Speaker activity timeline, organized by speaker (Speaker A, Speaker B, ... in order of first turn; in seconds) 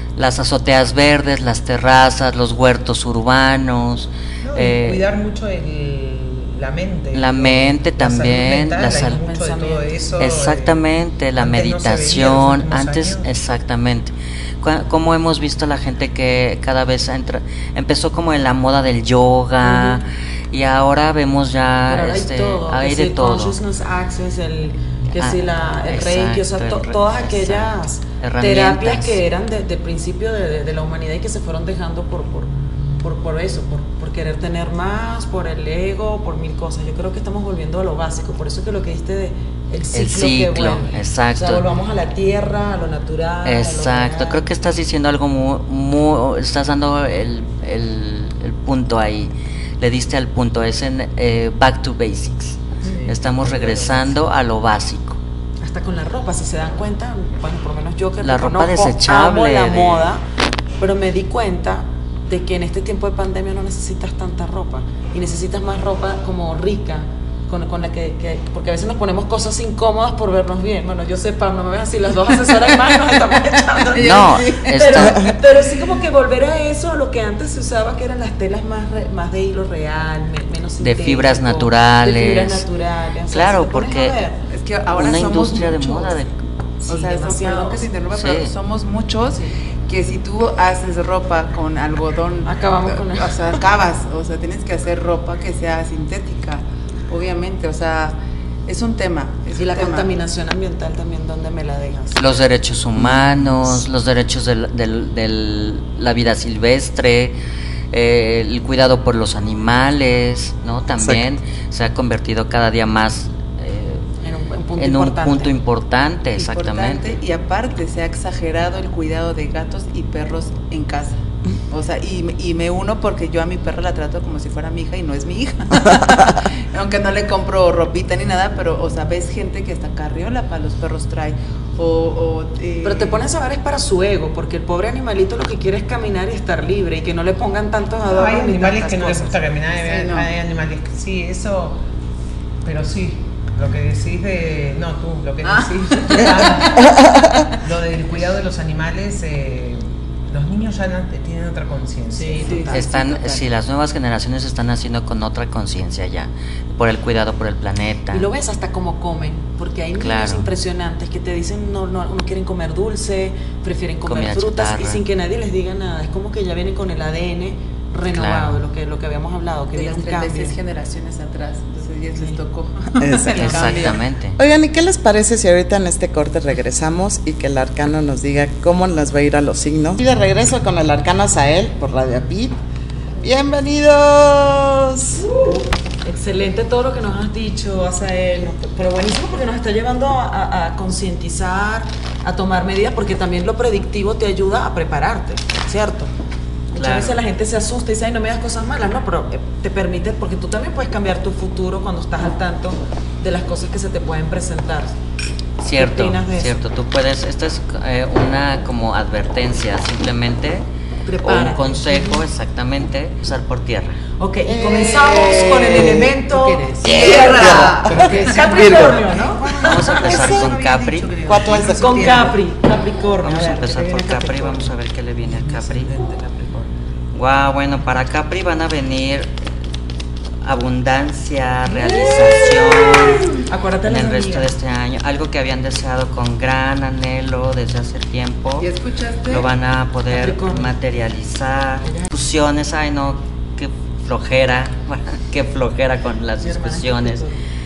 Speaker A: 0.2-5.0, 7.1-9.2, 10.2-23.6, 25.2-29.2, 39.9-41.6, 43.5-55.2, 58.2-60.1, 74.0-75.3, 80.8-82.7, 83.3-84.2, 84.9-86.4, 88.1-88.5, 102.2-107.3, 107.9-114.1, 114.8-117.1, 152.7-158.3, 160.0-160.5, 164.1-165.0, 168.1-168.6, 173.3-174.4, 196.8-197.2, 205.6-210.7, 211.2-214.0, 219.6-221.2, 223.2-225.9, 227.1-229.4, 230.4-238.7, 239.3-247.2
Speaker B: 4.4-10.8, 11.4-13.3, 52.9-54.1, 138.1-141.8, 142.6-152.8, 215.0-222.4, 225.2-226.7
Speaker C: 9.1-10.1, 19.6-20.0, 21.9-44.4, 55.6-60.2, 60.8-84.4, 86.9-87.9, 92.5-93.5, 99.5-102.2, 114.2-115.5, 132.8-140.3, 152.1-153.4, 158.1-170.6, 173.3-174.0, 185.2-196.1, 196.7-205.0, 205.8-206.6, 211.1-212.2, 214.2-220.4, 221.6-224.7, 231.7-234.5, 240.1-240.8, 246.4-247.4
Speaker D: 73.9-75.4, 84.5-86.2, 86.9-100.1, 116.4-133.2, 146.0-146.7, 152.4-152.7, 169.7-174.0, 214.7-215.5, 216.9-217.4, 238.6-239.5
Speaker E: 103.0-103.7, 111.0-111.3, 173.0-182.6, 183.2-185.3, 214.4-216.1, 216.8-219.1, 220.0-220.6, 221.2-222.3